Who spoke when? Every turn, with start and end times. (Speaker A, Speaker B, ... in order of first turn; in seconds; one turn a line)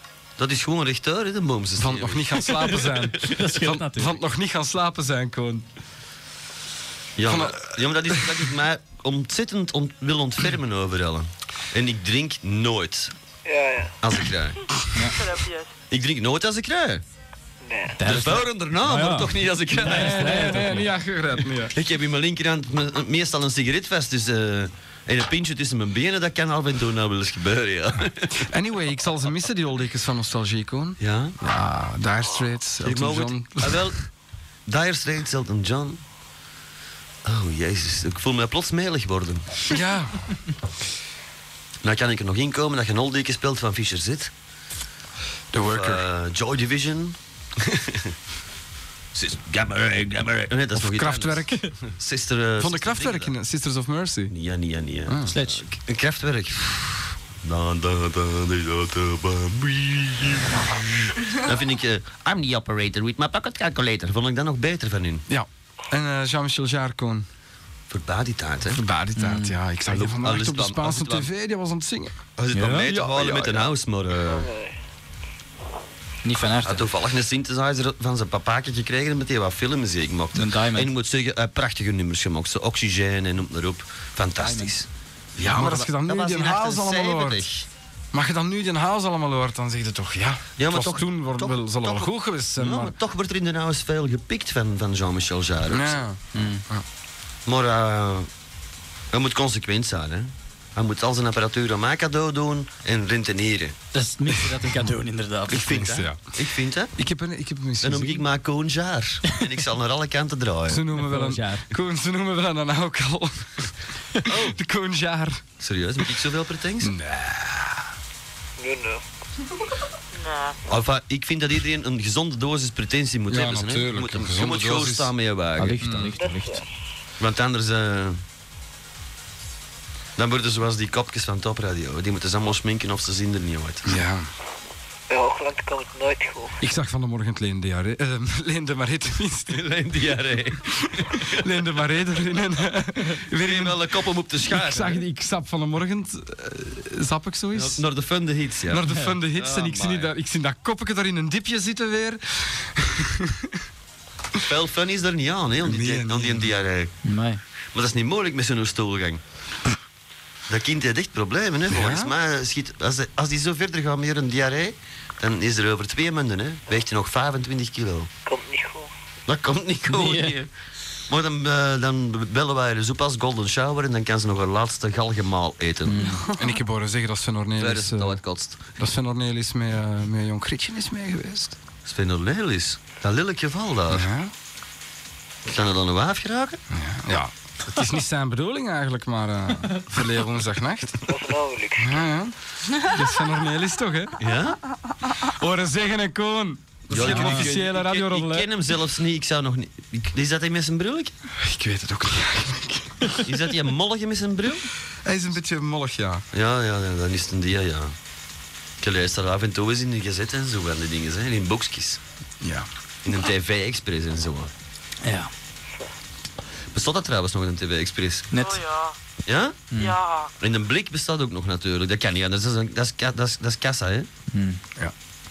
Speaker A: 0.4-2.9
Speaker B: 1.8-5.6
Speaker C: 3.2-4.2
Speaker A: 7.2-13.1
Speaker B: 7.3-7.7
Speaker D: 13.5-13.9
Speaker A: 14.0-14.6
Speaker E: 15.1-15.7
Speaker A: 15.9-17.0
Speaker D: 17.6-18.0
Speaker C: 18.0-20.9
Speaker A: 18.0-20.6
Speaker B: 19.8-21.7
Speaker A: 21.7-28.3
Speaker B: 28.4-33.9
Speaker A: 31.0-31.4
Speaker A: 32.8-34.0
Speaker A: 34.7-36.0
Speaker A: 37.2-39.6
Speaker B: 39.7-40.3
Speaker A: 41.8-44.3
Speaker B: 45.5-46.0
Speaker A: 45.7-48.1
Speaker A: 49.1-53.3
Speaker B: 50.8-51.7
Speaker B: 52.6-54.3
Speaker A: 54.3-65.2
Speaker B: 55.1-55.3
Speaker C: 55.3-55.6
Speaker B: 65.3-67.3
Speaker A: 67.9-68.8
Speaker B: 68.7-72.2
Speaker C: 69.2-69.6
Speaker A: 69.9-71.3
Speaker A: 72.4-74.5
Speaker C: 72.5-72.9
Speaker B: 72.8-73.7
Speaker D: 74.3-74.7
Speaker C: 76.2-76.8
Speaker A: 76.6-87.7
Speaker C: 80.4-80.9
Speaker C: 84.4-84.7
Speaker B: 85.4-87.4
Speaker B: 88.1-92.9
Speaker A: 90.6-96.0
Speaker B: 95.7-96.8
Speaker C: 96.3-96.6
Speaker A: 97.5-98.3
Speaker A: 99.1-103.8
Speaker C: 103.9-106.0
Speaker A: 105.5-106.9
Speaker B: 105.6-106.2
Speaker B: 107.0-108.2
Speaker A: 107.8-110.8
Speaker B: 110.7-113.7
Speaker C: 110.9-111.7
Speaker A: 114.3-114.6
Speaker B: 114.3-115.4
Speaker A: 115.6-116.9
Speaker B: 116.8-117.8
Speaker D: 118.6-119.0
Speaker E: 120.1-120.6
Speaker A: 120.7-126.0
Speaker B: 123.3-125.1
Speaker C: 125.6-126.6
Speaker B: 125.8-126.2
Speaker D: 126.1-126.6
Speaker A: 127.2-128.2
Speaker A: 130.2-133.9
Speaker B: 133.9-134.3
Speaker D: 135.1-136.6
Speaker B: 136.6-139.6
Speaker A: 139.5-141.2
Speaker B: 140.8-143.8
Speaker A: 143.4-145.0
Speaker B: 144.5-147.8
Speaker A: 147.5-150.1
Speaker B: 148.7-153.5
Speaker A: 154.5-156.9
Speaker B: 155.6-156.5
Speaker C: 157.1-157.4
Speaker A: 157.7-159.2
Speaker A: 160.5-168.1
Speaker B: 161.7-162.1
Speaker D: 168.3-168.9
Speaker A: 169.3-170.5
Speaker C: 169.9-170.3
Speaker A: 171.1-176.2
Speaker C: 175.9-176.3
Speaker B: 176.3-178.2
Speaker A: 177.6-178.6
Speaker B: 178.8-181.6
Speaker A: 181.8-184.1
Speaker B: 183.9-184.3
Speaker A: 185.4-186.6
Speaker B: 186.7-191.1
Speaker D: 191.1-192.0
Speaker B: 191.8-194.2
Speaker A: 194.2-194.6
Speaker B: 195.2-198.5
Speaker A: 196.9-201.1
Speaker C: 196.9-197.5
Speaker B: 201.4-203.2
Speaker A: 203.2-204.6
Speaker B: 205.1-206.2
Speaker A: 206.3-207.9
Speaker A: 208.8-212.0
Speaker B: 212.4-212.7
Speaker A: 213.1-214.5
Speaker C: 215.0-215.3
Speaker A: 216.7-218.3
Speaker C: 218.3-218.6
Speaker E: 218.4-218.9
Speaker A: 219.3-219.7
Speaker C: 219.7-220.0
Speaker E: 219.8-220.3
Speaker A: 220.4-224.1
Speaker C: 224.3-224.6